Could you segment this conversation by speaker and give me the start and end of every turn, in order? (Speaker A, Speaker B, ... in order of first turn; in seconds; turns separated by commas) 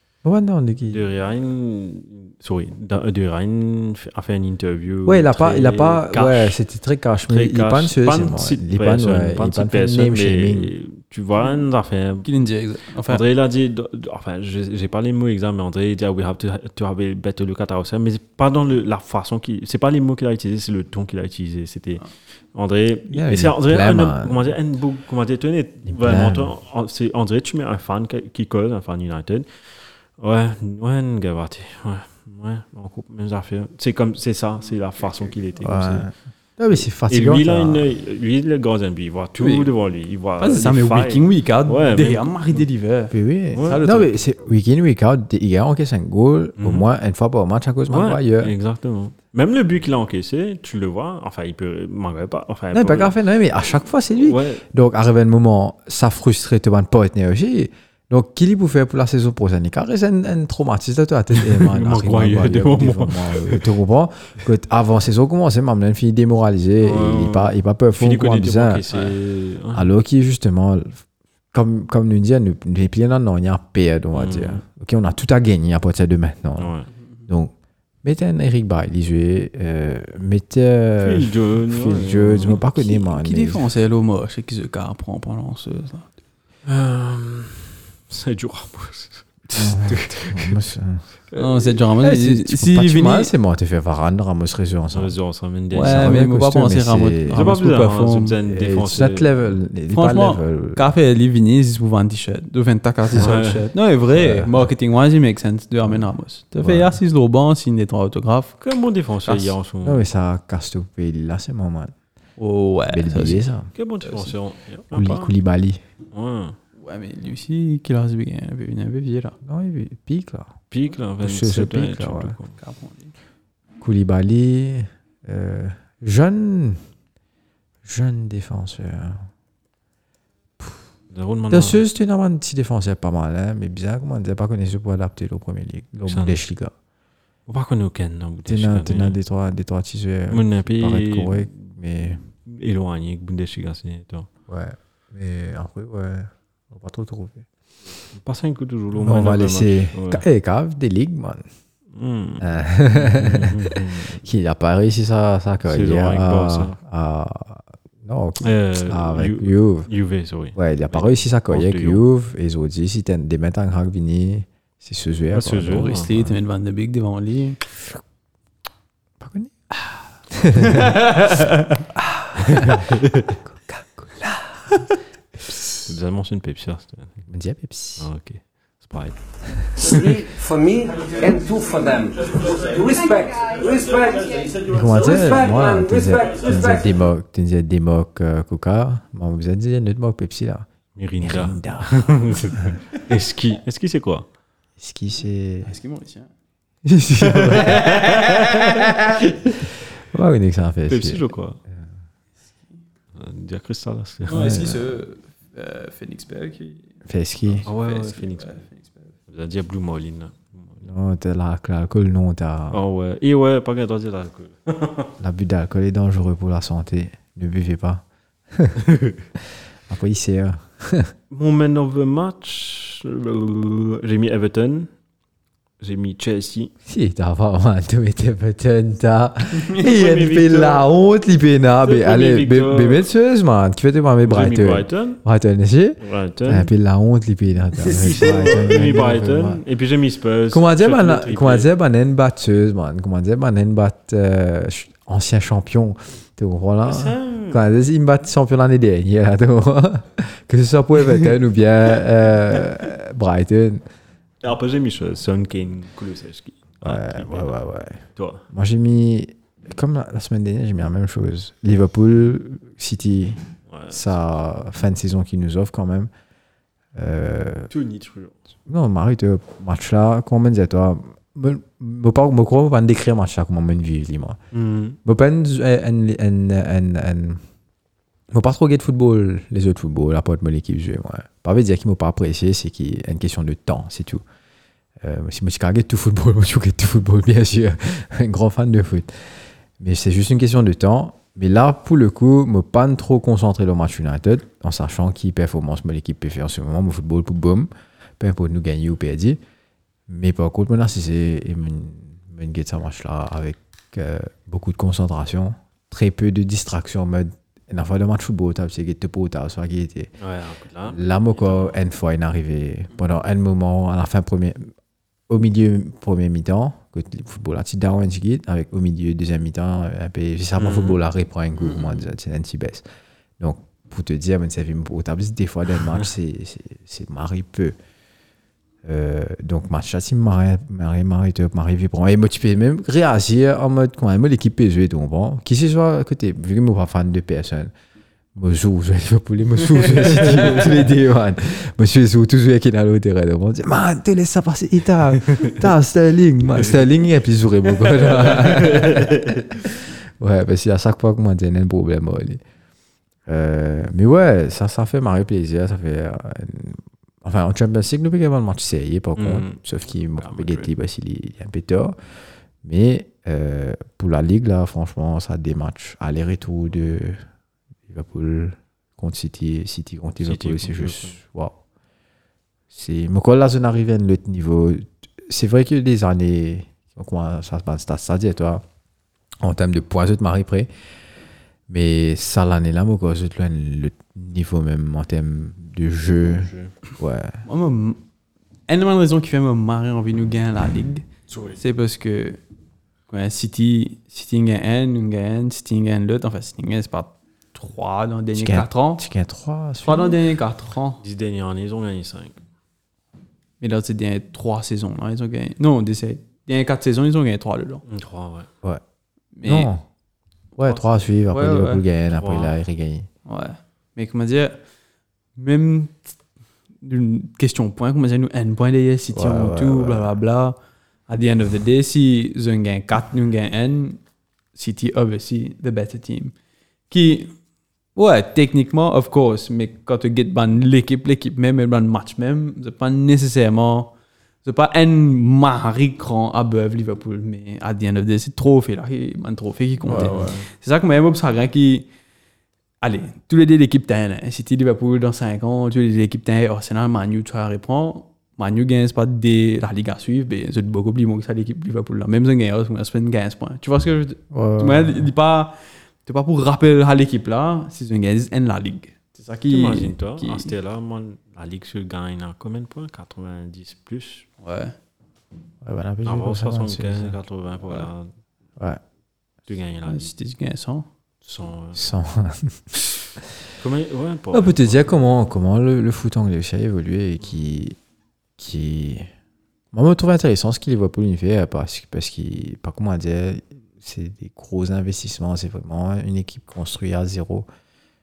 Speaker A: 0.2-1.0, Speaker B: 0.9-6.6, Speaker A: 5.0-10.7, Speaker B: 7.3-12.3, Speaker C: 12.2-13.2, Speaker B: 13.1-36.1, Speaker A: 23.1-24.5, Speaker A: 25.9-26.5, Speaker A: 35.6-37.8, Speaker B: 37.1-42.4, Speaker C: 39.4-39.7, Speaker C: 40.4-44.1, Speaker A: 43.1-48.5, Speaker B: 43.5-43.8, Speaker B: 46.6-46.9, Speaker B: 47.9-53.1, Speaker A: 52.7-68.8, Speaker B: 54.2-54.6, Speaker B: 61.3-63.7, Speaker B: 66.8-69.9, Speaker A: 69.7-71.0, Speaker A: 71.5-76.7, Speaker B: 74.1-74.6, Speaker B: 76.6-76.9, Speaker A: 77.3-77.5, Speaker A: 78.0-83.6, Speaker B: 81.0-82.6, Speaker C: 82.7-86.1, Speaker B: 86.7-90.6, Speaker A: 89.5-91.0, Speaker B: 91.3-91.7, Speaker C: 91.3-93.3, Speaker A: 92.0-95.1, Speaker B: 94.9-96.2, Speaker C: 95.7-98.4, Speaker A: 95.8-97.5, Speaker B: 97.3-99.5, Speaker A: 98.5-100.9, Speaker C: 99.9-108.6, Speaker B: 103.2-103.7, Speaker A: 104.1-104.7, Speaker A: 106.6-107.0, Speaker B: 108.6-110.1, Speaker C: 109.2-109.5, Speaker A: 109.8-111.9, Speaker C: 112.4-113.5, Speaker A: 112.9-113.7, Speaker B: 113.7-115.3, Speaker C: 114.0-114.3, Speaker A: 114.9-115.8, Speaker B: 116.1-116.5, Speaker C: 116.8-119.4, Speaker A: 119.4-120.5, Speaker B: 120.7-122.5, Speaker A: 121.2-122.3, Speaker C: 122.6-123.1, Speaker A: 123.8-126.8, Speaker A: 127.8-129.2, Speaker B: 131.1-131.8, Speaker A: 131.5-136.7, Speaker B: 136.1-136.4, Speaker B: 137.5-139.2, Speaker A: 138.4-142.2, Speaker B: 140.3-141.7, Speaker B: 142.4-144.3, Speaker A: 144.5-147.4, Speaker B: 148.1-150.2, Speaker A: 149.0-151.4, Speaker B: 151.9-154.2, Speaker A: 152.4-159.9, Speaker B: 155.7-156.8, Speaker B: 158.4-162.0, Speaker A: 160.5-166.4, Speaker B: 165.3-166.1, Speaker C: 165.7-167.6, Speaker A: 169.2-169.5, Speaker A: 170.3-171.0, Speaker C: 170.6-171.8, Speaker A: 172.0-174.8, Speaker B: 172.4-173.3, Speaker B: 175.8-177.2, Speaker A: 177.3-178.1, Speaker B: 178.0-180.0, Speaker D: 179.8-186.9, Speaker A: 184.7-190.7, Speaker B: 190.9-194.3, Speaker A: 191.2-192.7, Speaker A: 194.8-195.7, Speaker C: 195.6-196.3, Speaker A: 196.8-197.9, Speaker B: 197.2-198.7, Speaker C: 197.8-198.4, Speaker A: 198.9-199.2, Speaker A: 200.0-201.2, Speaker B: 200.9-201.6, Speaker B: 203.2-204.4, Speaker C: 204.3-206.9, Speaker A: 204.3-204.9, Speaker A: 207.1-207.7, Speaker C: 207.6-209.1, Speaker B: 207.6-208.6, Speaker B: 209.3-210.9, Speaker A: 210.8-212.8, Speaker B: 212.7-215.1, Speaker A: 215.2-218.8, Speaker B: 218.8-219.2, Speaker A: 219.4-221.1, Speaker B: 221.3-224.9, Speaker B: 225.8-226.7, Speaker A: 226.8-239.6, Speaker B: 229.8-230.8, Speaker B: 231.8-233.1, Speaker B: 234.2-235.2, Speaker B: 236.0-236.7, Speaker C: 237.9-238.7, Speaker B: 237.9-241.7, Speaker A: 240.5-253.8, Speaker B: 246.8-247.6, Speaker B: 254.4-257.5, Speaker A: 256.8-266.1, Speaker B: 258.1-258.4, Speaker B: 263.7-264.0, Speaker A: 266.9-267.7, Speaker B: 267.7-268.4, Speaker A: 268.7-274.4, Speaker B: 274.5-275.0, Speaker A: 275.0-277.4, Speaker A: 278.3-284.2, Speaker A: 285.0-299.4, Speaker A: 300.1-310.1, Speaker B: 310.2-311.8, Speaker A: 310.9-314.7, Speaker A: 315.3-322.8, Speaker B: 320.6-321.0, Speaker C: 321.6-322.1, Speaker A: 323.4-327.7, Speaker A: 328.8-337.7, Speaker A: 338.3-352.4, Speaker B: 348.0-349.5, Speaker A: 353.3-362.0, Speaker B: 359.2-360.7, Speaker A: 362.6-367.2, Speaker A: 367.9-371.6, Speaker B: 370.2-371.2, Speaker A: 372.7-378.6, Speaker A: 379.4-380.7, Speaker A: 381.7-387.4, Speaker B: 386.2-386.7, Speaker C: 387.5-388.0, Speaker C: 388.7-391.1, Speaker B: 391.3-391.6, Speaker C: 391.6-392.4, Speaker C: 393.1-399.1, Speaker A: 398.3-400.2, Speaker C: 399.8-401.0, Speaker B: 401.0-402.4, Speaker C: 403.6-407.8, Speaker B: 407.9-408.5, Speaker C: 409.4-409.7, Speaker A: 409.4-409.8, Speaker A: 410.6-413.1, Speaker C: 411.3-411.8, Speaker B: 412.1-412.5, Speaker C: 413.2-414.6, Speaker C: 415.4-416.1, Speaker C: 416.8-420.6, Speaker A: 419.1-420.1, Speaker C: 421.1-424.0, Speaker C: 424.5-426.3, Speaker C: 426.9-427.3, Speaker C: 427.9-433.9, Speaker C: 434.4-441.9, Speaker A: 439.9-440.2, Speaker B: 439.9-440.4, Speaker C: 442.8-460.5, Speaker A: 454.3-455.1, Speaker B: 459.5-464.3, Speaker C: 464.4-464.7, Speaker A: 465.6-467.2, Speaker B: 466.0-468.1, Speaker B: 469.5-470.1, Speaker C: 469.9-470.9, Speaker B: 471.2-471.8, Speaker A: 471.7-472.6, Speaker B: 473.6-474.9, Speaker A: 474.3-477.8, Speaker A: 478.4-479.1, Speaker A: 479.7-487.5